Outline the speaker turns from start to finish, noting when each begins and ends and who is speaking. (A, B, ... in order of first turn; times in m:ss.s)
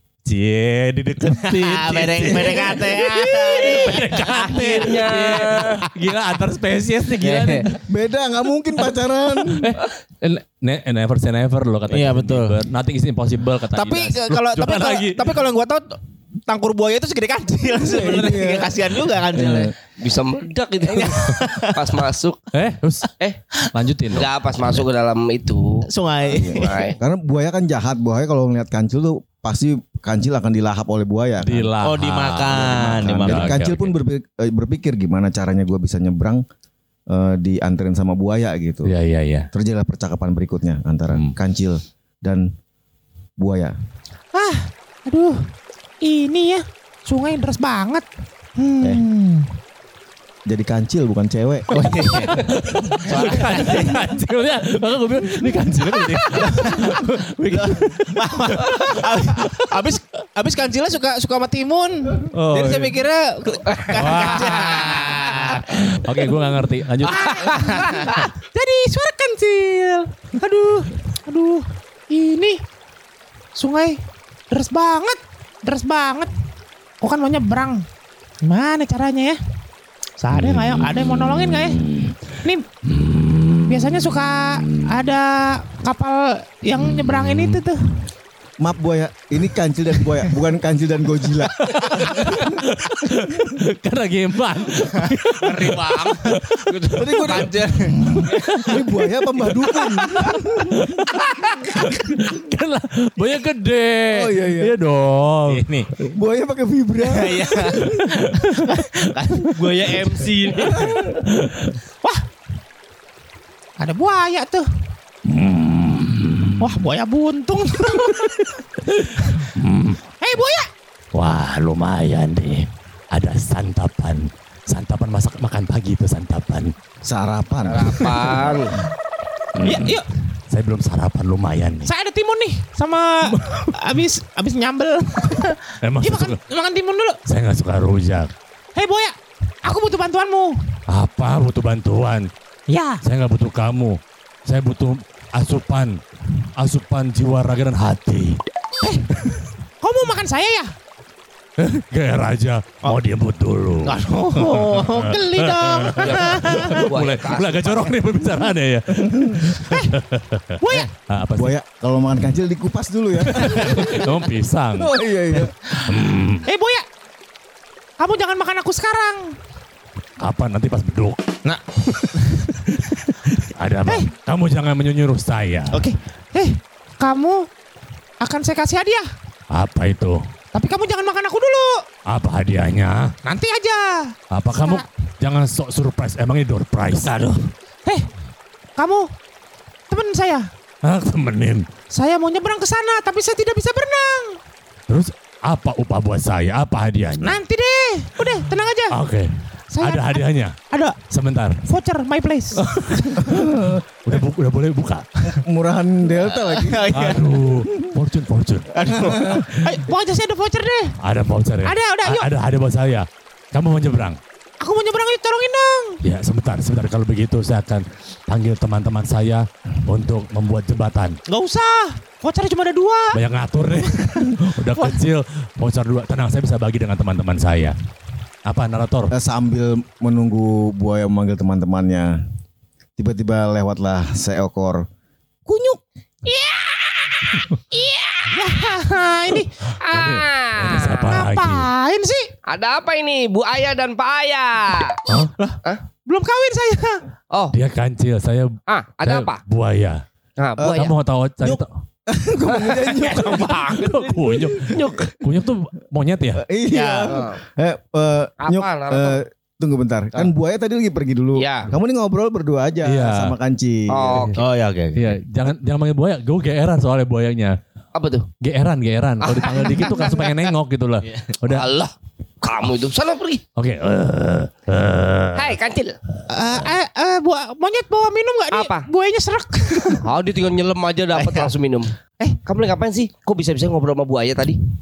0:00.2-0:07.8 A
0:01.3-0:03.8 B
0:02.8-0:03.9 C
0:03.1-0:05.9 D
0:07.2-0:07.7 B
0:07.8-0:09.7 E
0:09.6-0:15.2 A
0:11.9-0:12.6 B
0:13.7-0:19.7 B
0:17.8-0:18.8 E
0:19.3-0:19.7 E
0:20.0-0:22.5 D
0:20.9-0:22.0 B
0:22.5-0:23.1 A
0:23.7-0:24.3 A
0:24.1-0:25.8 D
0:25.9-0:26.9 B
0:26.3-0:31.7 E
0:26.5-0:27.0 D
0:31.4-0:33.9 A
0:31.8-0:33.5 B
0:32.9-0:36.4 E
0:37.1-0:38.9 E
0:38.8-0:39.5 A
0:39.5-0:42.5 E
0:43.4-0:43.7 E
0:44.3-0:45.4 C
0:46.0-0:48.0 C
0:48.6-0:49.5 C
0:50.4-0:51.7 E
0:51.7-0:54.0 B
0:52.3-0:59.5 A
0:55.9-0:56.9 C
0:56.4-0:56.9 B
0:57.5-1:06.0 B
1:02.3-1:03.0 A
1:03.7-1:05.3 D
1:03.9-1:04.9 A
1:05.4-1:07.3 A
1:07.1-1:08.0 B
1:07.1-1:12.6 C
1:07.3-1:08.1 D
1:13.5-1:14.0 C
1:14.5-1:16.3 C
1:17.0-1:17.8 C
1:18.4-1:19.4 C
1:20.2-1:21.8 C
1:20.3-1:22.1 A
1:22.9-1:24.0 A
1:23.7-1:27.8 C
1:26.8-1:27.6 A
1:28.6-1:33.6 E
1:31.6-1:37.4 A
1:35.3-1:38.0 B
1:37.0-1:40.9 E
1:38.5-1:45.6 A
1:44.1-1:44.7 E
1:45.5-1:45.9 B
1:46.0-1:48.5 E
1:47.0-1:50.9 B
1:48.3-1:50.0 A
1:50.7-1:51.2 E
1:50.7-1:51.8 A
1:53.8-1:54.6 C
1:55.2-1:56.6 A
1:56.6-1:58.3 C
1:58.1-2:00.0 A
2:00.2-2:00.7 C
2:01.1-2:06.7 A
2:07.0-2:08.0 E
2:07.7-2:08.8 D
2:08.0-2:08.3 A
2:09.6-2:11.9 A
2:09.6-2:10.1 C
2:11.8-2:17.2 C
2:13.4-2:13.7 A
2:15.8-2:16.4 A
2:17.2-2:18.3 A
2:18.8-2:20.6 C
2:20.9-2:22.3 A
2:22.7-2:23.0 C
2:23.0-2:26.0 A
2:26.6-2:28.4 A
2:28.8-2:30.7 C
2:31.6-2:40.5 A
2:33.8-2:35.1 B
2:34.4-2:36.8 C
2:36.0-2:37.9 D
2:39.0-2:39.5 E
2:39.6-2:39.9 C
2:40.6-2:40.9 C
2:41.1-2:41.5 A
2:41.4-2:44.1 E
2:43.2-2:46.4 A
2:44.8-2:45.5 E
2:46.4-2:46.8 C
2:48.0-2:49.3 C
2:50.2-2:55.8 A
2:55.7-2:57.4 C
2:58.2-2:59.1 C
2:59.5-3:00.2 A
3:00.5-3:01.8 C
3:02.1-3:03.1 A
3:03.2-3:04.8 C
3:04.3-3:07.4 A
3:08.8-3:09.0 C
3:09.9-3:10.5 C
3:10.8-3:11.6 A
3:11.9-3:14.4 C
3:14.9-3:17.4 A
3:17.2-3:19.0 C
3:18.9-3:19.3 A
3:19.7-3:21.0 C
3:19.8-3:20.5 A
3:21.1-3:21.6 A
3:21.6-3:22.7 C
3:22.7-3:23.2 B
3:22.7-3:23.3 A
3:23.2-3:23.8 E
3:24.0-3:25.3 A
3:25.2-3:26.8 E
3:26.2-3:27.4 B
3:26.9-3:28.7 A
3:28.8-3:29.4 B
3:28.8-3:29.5 E
3:29.3-3:29.8 A
3:29.6-3:30.9 C
3:31.0-3:34.2 A
3:31.6-3:32.3 C
3:34.6-3:36.0 C
3:36.0-3:41.2 A
3:41.3-3:43.2 C
3:43.1-3:47.7 A
3:43.8-3:44.2 C
3:48.4-3:49.1 A
3:49.1-3:52.2 E
3:53.0-3:54.8 E
3:56.3-3:57.4 C
3:57.7-3:58.3 D
3:58.2-3:59.5 C
3:59.8-4:01.1 D
3:59.9-4:01.6 A
4:01.0-4:02.3 C
4:02.4-4:05.0 D
4:05.1-4:05.5 A
4:06.0-4:07.0 C
4:07.5-4:08.5 A
4:08.7-4:09.4 D
4:09.0-4:10.0 A
4:10.4-4:10.9 D
4:10.6-4:10.9 E
4:10.8-4:11.7 A
4:11.4-4:15.1 E
4:12.5-4:15.1 D
4:13.3-4:16.4 A
4:16.4-4:24.3 E
4:16.7-4:17.2 B
4:17.1-4:17.4 D
4:18.4-4:19.2 D
4:21.4-4:21.7 D
4:22.8-4:23.3 A
4:23.9-4:24.4 D
4:24.3-4:25.1 B
4:24.9-4:27.6 A
4:27.9-4:28.3 D
4:28.4-4:31.6 A
4:29.2-4:30.5 D
4:31.4-4:33.4 D
4:33.6-4:35.5 A
4:35.3-4:36.0 D
4:36.3-4:40.0 C
4:38.5-4:38.9 D
4:40.0-4:44.6 D
4:41.1-4:41.5 B